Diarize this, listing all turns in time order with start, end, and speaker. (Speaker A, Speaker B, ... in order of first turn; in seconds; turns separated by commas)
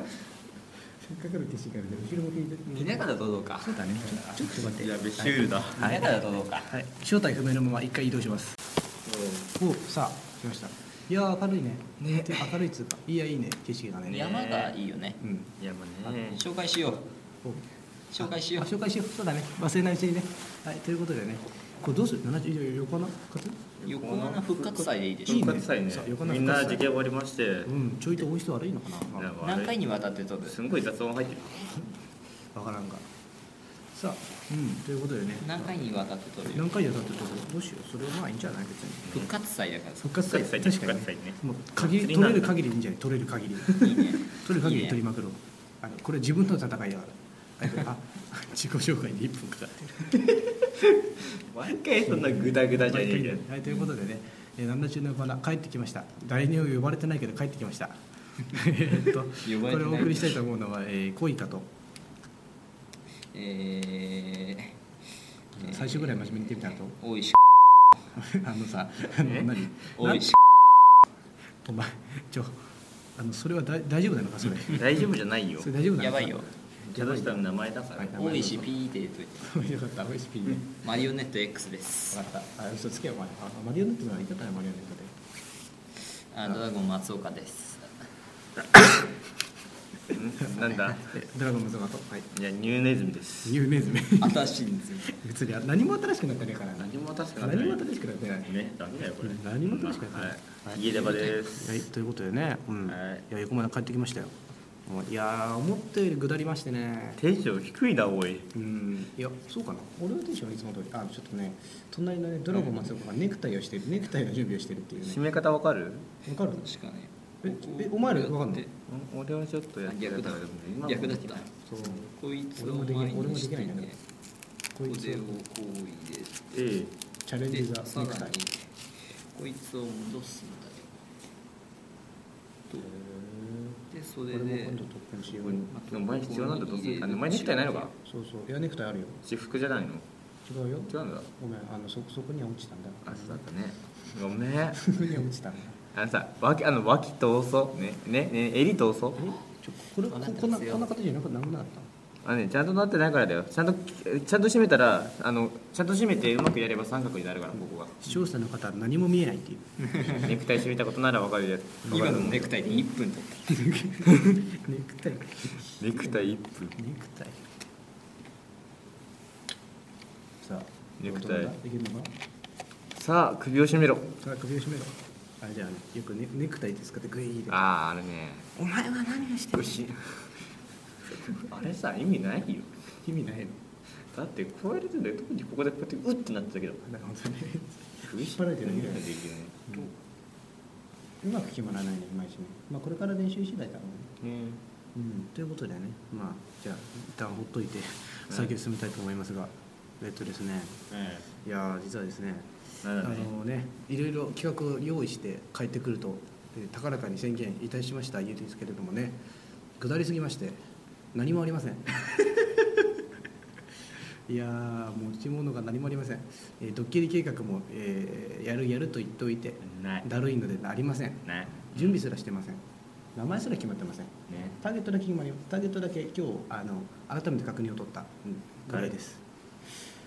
Speaker A: 1.0-3.1, Speaker B: 2.7-6.3, Speaker C: 3.0-3.6, Speaker A: 3.6-8.6, Speaker C: 5.8-6.7, Speaker B: 9.0-9.5, Speaker A: 9.6-14.3, Speaker B: 12.0-12.7, Speaker B: 14.0-14.8, Speaker C: 14.0-15.2, Speaker A: 15.2-15.5, Speaker B: 15.6-16.4, Speaker C: 16.2-17.1, Speaker C: 18.1-18.7, Speaker A: 18.2-23.6, Speaker B: 23.8-27.7, Speaker C: 23.8-25.6, Speaker A: 25.3-26.9, Speaker A: 27.6-29.3, Speaker B: 29.1-29.8, Speaker C: 29.4-30.6, Speaker B: 30.4-31.8, Speaker A: 32.5-33.1, Speaker A: 33.9-35.8, Speaker C: 35.4-36.7, Speaker A: 36.5-39.3, Speaker C: 39.1-40.2, Speaker A: 40.0-50.3, Speaker B: 40.2-42.6, Speaker C: 43.8-45.0, Speaker B: 50.8-53.5, Speaker A: 52.0-61.7, Speaker C: 59.4-60.4, Speaker C: 63.3-64.8, Speaker A: 65.5-67.0, Speaker C: 65.6-67.3, Speaker A: 68.1-70.3, Speaker B: 69.2-69.5, Speaker A: 71.6-72.6, Speaker A: 73.2-74.8, Speaker B: 74.6-75.7, Speaker A: 75.6-77.4, Speaker C: 76.0-76.5, Speaker B: 76.9-78.5, Speaker A: 78.0-78.7, Speaker C: 78.1-79.5, Speaker A: 79.4-80.9, Speaker C: 80.7-82.2, Speaker A: 82.1-85.1, Speaker C: 86.3-88.1, Speaker B: 90.1-91.1, Speaker A: 90.4-92.3, Speaker B: 92.3-93.6, Speaker A: 93.4-94.4, Speaker C: 94.1-95.1, Speaker A: 95.0-98.5, Speaker B: 96.8-97.8, Speaker B: 98.4-101.8, Speaker A: 99.2-100.8, Speaker C: 100.8-101.5, Speaker A: 101.4-107.2, Speaker B: 102.9-103.2, Speaker B: 107.2-108.5, Speaker A: 108.5-115.2, Speaker B: 115.0-116.1, Speaker A: 116.2-116.7, Speaker C: 116.5-118.7, Speaker A: 117.4-118.7, Speaker B: 118.9-122.0, Speaker C: 119.8-121.5, Speaker A: 121.7-122.0, Speaker C: 122.0-124.0, Speaker A: 122.6-123.9, Speaker A: 124.7-125.4, Speaker C: 124.8-126.6, Speaker B: 126.5-126.9, Speaker A: 127.2-128.4, Speaker C: 127.5-130.9, Speaker A: 132.8-135.7, Speaker C: 133.9-134.8, Speaker B: 135.2-137.9, Speaker C: 135.7-137.9, Speaker A: 138.0-139.2, Speaker B: 139.2-140.1, Speaker A: 140.4-143.4, Speaker B: 140.9-141.3, Speaker B: 143.0-145.2, Speaker A: 144.9-145.8, Speaker B: 145.9-149.3, Speaker A: 149.2-151.9, Speaker C: 150.1-150.9, Speaker B: 152.2-158.1, Speaker A: 158.0-160.3, Speaker B: 160.0-162.6, Speaker C: 161.8-163.6, Speaker A: 161.9-162.5, Speaker A: 163.5-167.6, Speaker B: 165.8-166.8, Speaker A: 170.4-172.1, Speaker B: 171.0-171.5, Speaker B: 172.9-174.2, Speaker A: 174.2-177.6, Speaker B: 177.5-178.5, Speaker A: 178.5-180.3, Speaker B: 179.5-180.0, Speaker B: 181.3-182.7, Speaker A: 183.0-183.6, Speaker B: 184.1-186.8, Speaker A: 186.8-189.0, Speaker B: 188.1-189.9, Speaker A: 191.2-194.1, Speaker B: 194.2-194.6, Speaker A: 194.9-200.8, Speaker B: 200.9-201.3, Speaker A: 201.4-209.2, Speaker B: 202.8-203.3, Speaker A: 209.8-210.6, Speaker A: 211.1-212.0, Speaker A: 214.3-222.6, Speaker B: 219.6-220.1, Speaker B: 221.2-222.0, Speaker A: 223.1-229.2, Speaker B: 224.3-224.6, Speaker B: 228.7-228.9